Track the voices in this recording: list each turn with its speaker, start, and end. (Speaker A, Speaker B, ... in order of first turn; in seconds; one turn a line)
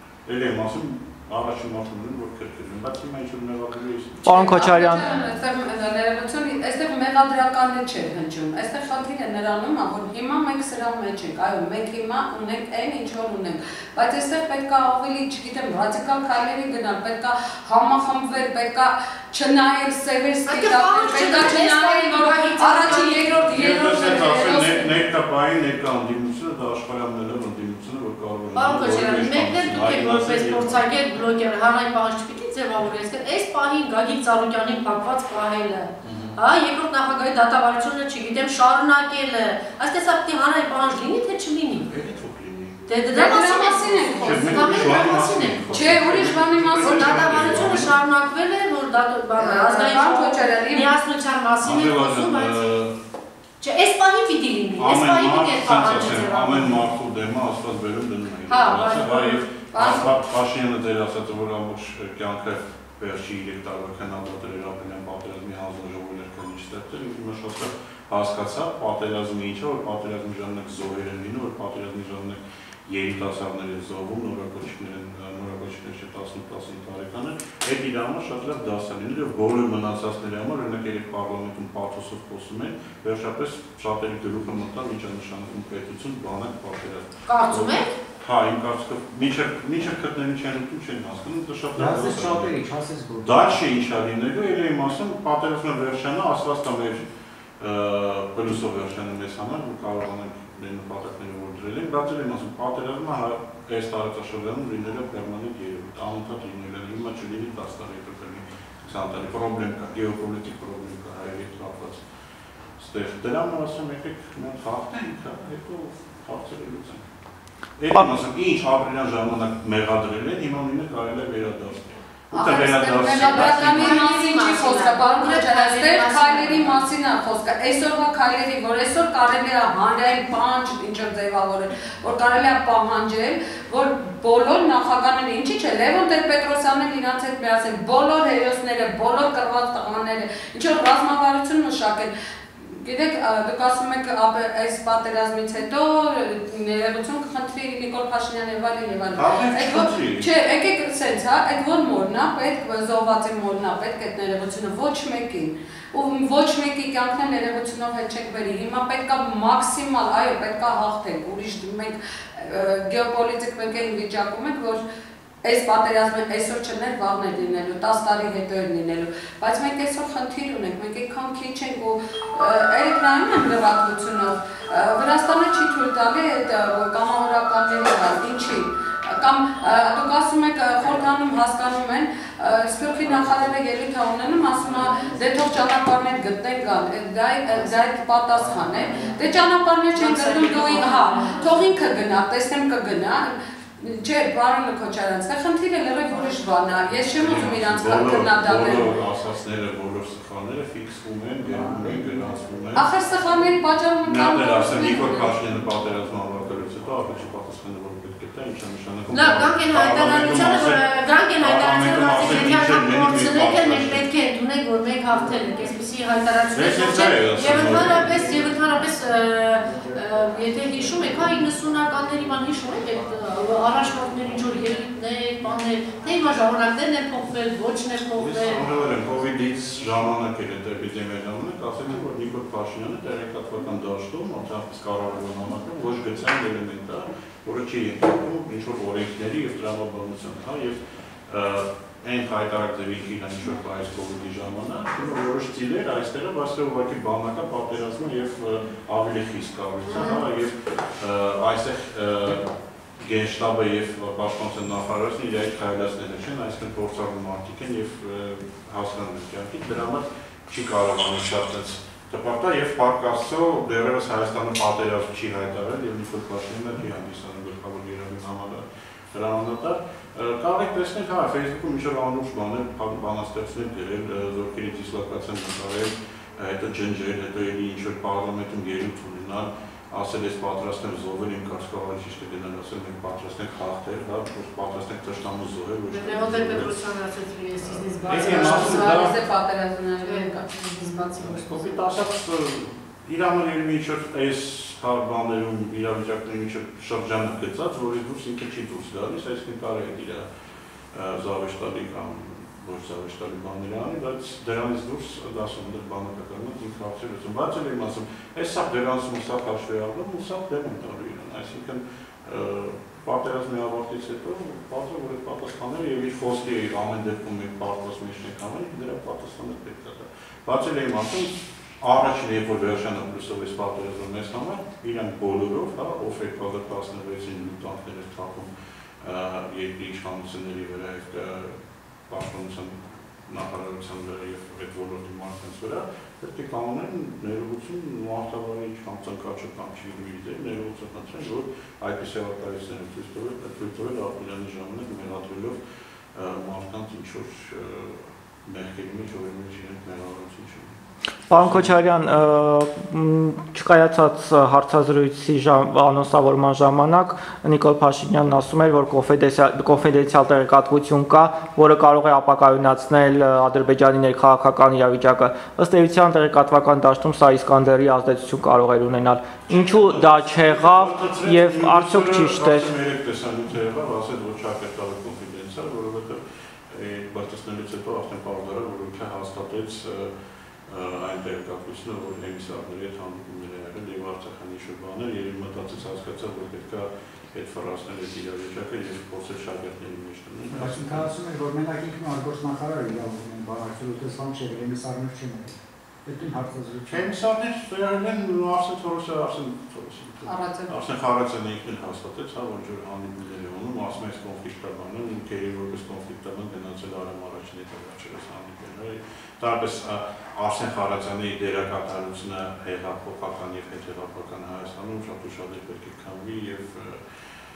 Speaker A: 0.3-4.2
Speaker B: 4.2-5.1
Speaker C: 4.3-24.9
Speaker D: 20.5-23.4
Speaker A: 23.4-30.9
Speaker D: 28.6-41.9
Speaker A: 36.0-36.4
Speaker A: 41.8-42.8
Speaker D: 42.9-45.8
Speaker C: 43.1-45.1
Speaker A: 44.2-47.9
Speaker C: 45.7-47.4
Speaker D: 46.8-52.7
Speaker C: 49.4-50.9
Speaker A: 51.6-53.0
Speaker D: 53.6-56.9
Speaker A: 54.8-92.6
Speaker D: 58.5-59.4
Speaker C: 58.6-60.1
Speaker D: 87.3-88.0
Speaker E: 91.8-93.6
Speaker A: 93.2-97.0
Speaker A: 97.6-112.0
Speaker A: 112.8-117.1
Speaker A: 117.8-124.0
Speaker C: 122.3-164.8
Speaker D: 123.1-126.8
Speaker A: 149.2-150.3
Speaker C: 165.4-198.9
Speaker E: 184.6-185.2
Speaker E: 188.3-189.3
Speaker D: 189.9-191.7
Speaker A: 197.1-202.9
Speaker E: 201.5-202.4
Speaker C: 202.8-205.4
Speaker A: 204.0-210.8
Speaker D: 209.1-228.7
Speaker A: 211.4-214.0
Speaker A: 216.5-218.3
Speaker E: 220.8-221.2
Speaker A: 228.2-252.5
Speaker D: 249.9-250.2
Speaker A: 253.0-286.7
Speaker D: 285.9-289.0
Speaker A: 287.6-289.2
Speaker C: 288.1-291.8
Speaker D: 290.0-291.2
Speaker A: 291.2-300.3
Speaker A: 300.9-328.5
Speaker A: 329.0-345.6
Speaker A: 346.1-351.7
Speaker B: 351.3-372.7
Speaker A: 369.5-380.1
Speaker A: 380.7-391.1
Speaker E: 390.5-397.1
Speaker A: 396.9-417.2
Speaker C: 400.2-400.7